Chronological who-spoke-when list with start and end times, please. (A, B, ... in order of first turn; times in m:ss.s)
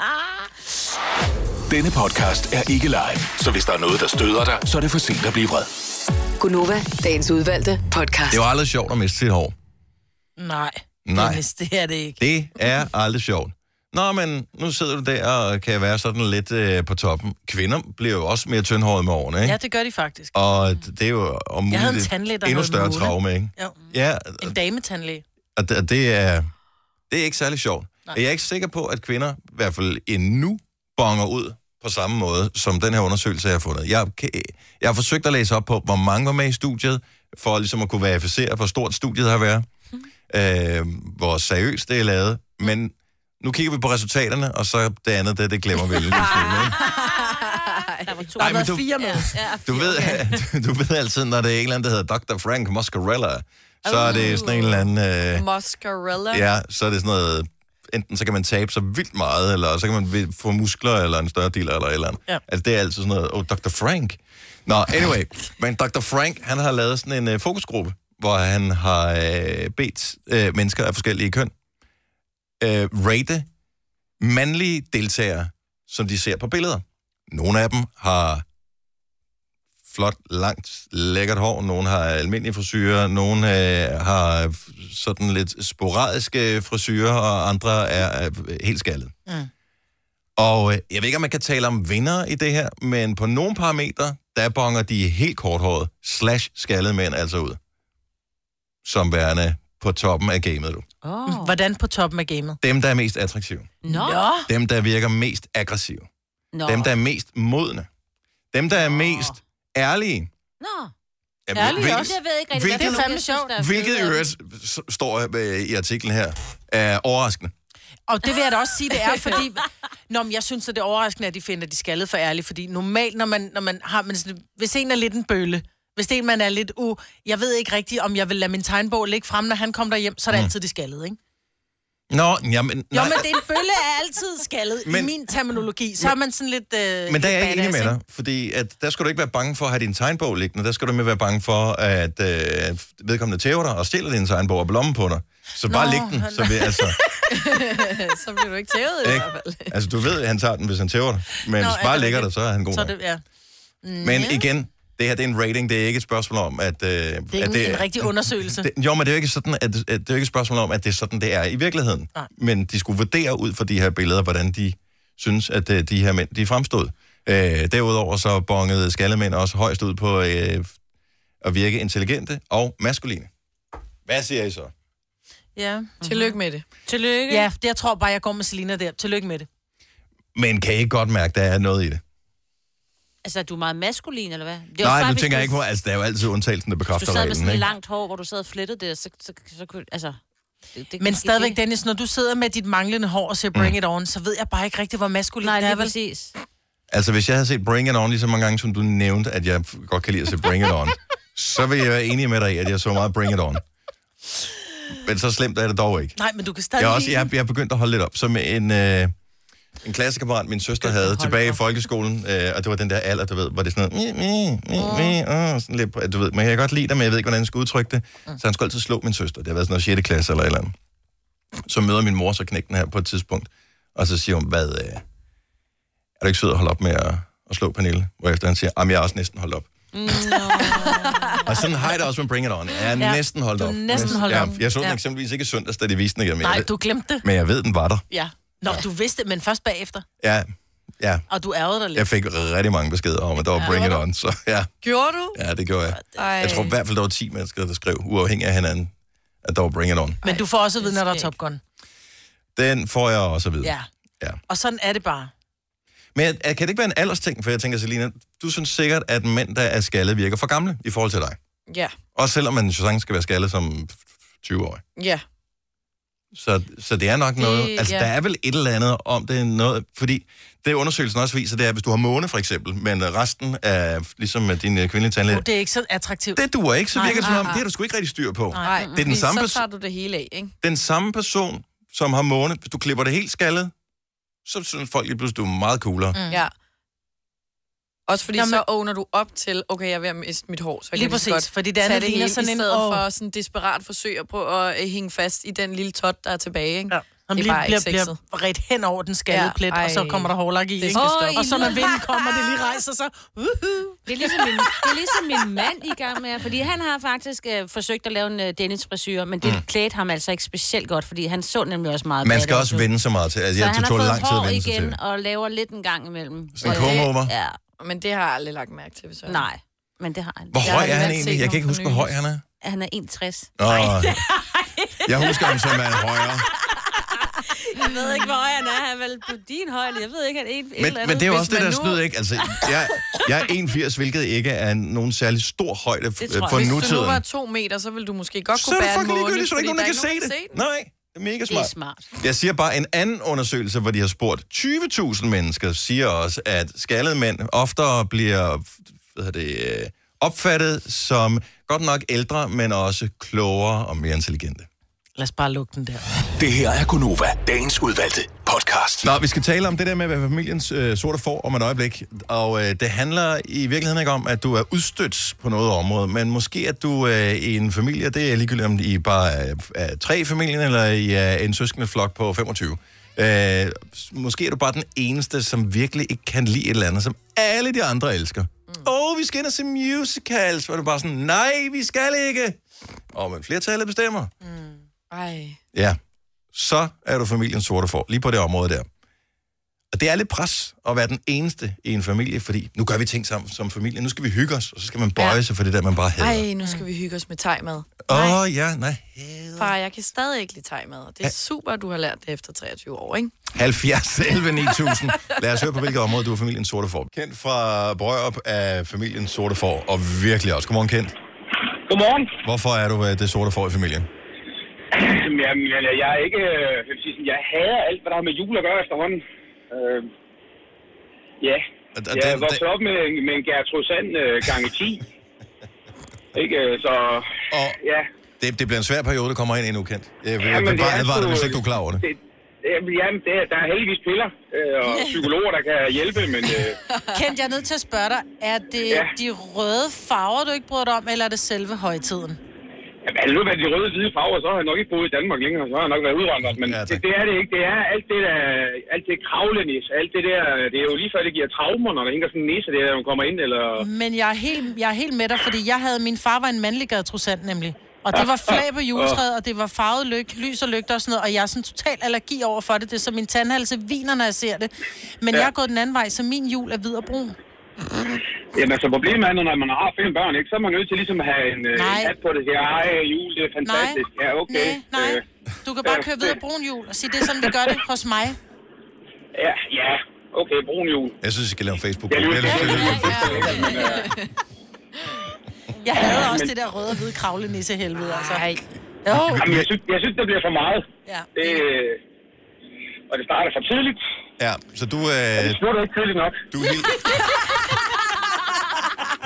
0:01.7-0:05.7 A
0:06.4-0:08.4 B
0:08.3-0:09.5 C
0:10.4-0:12.2 D
0:11.1-0:11.4 C
0:12.2-0:19.6 C
0:19.4-0:20.3 D
0:20.3-0:24.6 C
0:21.7-0:23.8 D
0:24.4-0:25.2 D
0:25.6-0:26.5 C
0:27.1-0:39.7 C
0:40.3-0:46.8 C
0:46.1-0:50.3 E
0:46.2-0:47.0 D
0:47.2-0:48.3 F
0:48.4-0:49.4 D
0:48.4-0:55.4 C
0:53.8-0:54.5 D
0:54.0-0:54.5 E
0:55.3-0:56.5 F
0:56.3-1:11.5 C
1:12.6-1:13.5 C
1:14.2-1:18.4 C
1:19.9-1:29.1 C
1:30.4-1:37.6 C
1:38.8-1:40.9 C
1:41.0-1:41.6 E
1:41.3-1:42.6 D
1:42.6-1:43.7 C
1:43.8-1:44.3 E
1:43.9-1:44.5 D
1:44.5-1:46.1 C
1:46.5-1:46.9 E
1:46.7-1:47.9 C
1:48.5-1:50.3 C
1:48.7-1:49.4 E
1:50.6-1:50.9 E
1:51.5-1:57.5 C
1:51.5-1:54.2 E
1:51.6-1:52.2 D
1:52.7-1:53.6 D
1:58.1-2:11.2 D
2:12.1-2:13.3 C
2:12.9-2:17.4 D
2:14.9-2:15.1 C
2:17.1-2:27.0 C
2:17.3-2:18.0 F
2:25.7-2:27.6 D
2:27.3-2:29.8 F
2:29.0-2:32.9 C
2:31.5-2:33.2 D
2:33.8-2:34.5 D
2:34.0-2:50.7 C
2:37.3-2:38.7 D
2:51.4-2:53.3 C
2:54.1-2:54.7 C
2:55.6-2:55.9 D
2:56.0-2:57.5 E
2:56.0-2:56.6 F
2:57.3-2:59.5 D
3:00.4-3:02.0 C
3:03.2-3:05.6 E
3:04.8-3:07.7 C
3:06.9-3:10.2 E
3:10.7-3:11.6 E
3:11.0-3:16.0 D
3:15.4-3:16.3 E
3:16.9-3:23.6 C
3:25.0-3:26.2 C
3:26.2-3:27.3 D
3:26.8-3:29.1 C
3:29.8-3:40.7 C
3:30.8-3:31.6 D
3:34.8-3:35.2 D
3:41.7-3:45.0 C
3:46.2-3:49.7 C
3:50.1-3:51.2 E
3:50.2-3:51.7 D
3:51.5-3:58.1 C
3:53.0-3:55.0 D
3:53.9-3:54.6 F
3:56.4-3:57.3 D
3:58.1-4:00.0 D
4:00.2-4:01.3 C
4:01.3-4:02.1 D
4:02.0-4:04.7 C
4:03.5-4:04.1 F
4:04.8-4:05.4 F
4:05.4-4:08.9 C
4:06.1-4:06.8 F
4:09.4-4:10.2 C
4:10.2-4:11.3 F
4:10.2-4:11.6 D
4:12.6-4:14.4 C
4:13.6-4:13.9 D
4:14.5-4:15.3 D
4:16.2-4:21.4 C
4:21.7-4:22.0 F
4:22.2-4:24.8 C
4:25.0-4:25.2 F
4:26.3-4:35.5 C
4:27.4-4:28.1 F
4:35.3-4:36.4 D
4:36.4-4:39.6 C
4:36.9-4:37.5 D
4:37.0-4:37.6 F
4:38.5-4:38.8 D
4:38.6-4:40.5 F
4:38.7-4:39.1 E
4:40.6-4:43.7 C
4:44.4-4:46.2 C
4:46.2-4:46.4 D
4:48.1-4:58.2 F
4:48.4-4:48.7 D
4:50.9-4:53.0 D
4:56.9-5:05.9 D
4:59.3-5:01.8 F
5:01.0-5:02.5 E
5:04.1-5:12.9 E
5:12.2-5:15.0 C
5:13.6-5:17.6 E
5:16.6-5:17.3 C
5:17.8-5:19.5 F
5:19.2-5:21.1 E
5:20.5-5:22.4 C
5:20.6-5:22.2 F
5:22.6-5:33.3 E
5:23.6-5:24.2 C
5:25.1-5:26.5 C
5:30.8-5:37.2 C
5:36.2-5:36.7 E
5:36.5-5:40.6 F
5:38.5-5:54.7 C
5:41.5-5:42.1 E
5:55.2-5:56.0 D
5:56.4-5:59.1 A
5:59.0-6:22.6 C
6:23.1-6:24.3 C
6:24.4-6:24.8 D
6:25.1-6:25.6 F
6:26.5-6:28.9 C
6:29.9-6:36.5 C
6:35.2-6:35.4 F
6:36.2-6:38.4 F
6:38.0-6:39.7 C
6:39.6-6:43.3 F
6:43.5-6:51.1 C
6:44.8-6:45.4 F
6:51.9-6:52.4 G
6:52.4-6:54.1 C
6:54.9-7:00.1 G
7:01.4-7:05.0 G
7:02.0-7:02.6 C
7:06.3-7:08.1 G
7:07.5-7:07.8 C
7:08.4-7:12.0 C
7:10.4-7:16.8 G
7:17.1-7:22.4 D
7:18.9-7:19.1 G
7:23.0-7:33.9 G
7:26.6-7:27.0 C
7:33.8-7:47.4 D
7:38.1-7:39.2 G
7:48.6-7:55.2 G
7:51.8-7:52.1 D
7:53.6-7:58.4 D
7:55.8-7:56.4 G
7:59.4-8:01.2 G
8:01.2-8:03.8 C
8:02.1-8:04.0 G
8:02.4-8:03.8 D
8:02.7-8:04.0 E
8:03.6-8:04.2 F
8:05.8-8:08.5 D
8:06.0-8:06.6 G
8:08.0-8:08.6 F
8:09.0-8:09.4 D
8:09.3-8:09.7 C
8:09.4-8:12.0 G
8:13.1-8:14.0 G
8:14.4-8:15.6 C
8:15.4-8:16.4 G
8:16.5-8:17.2 C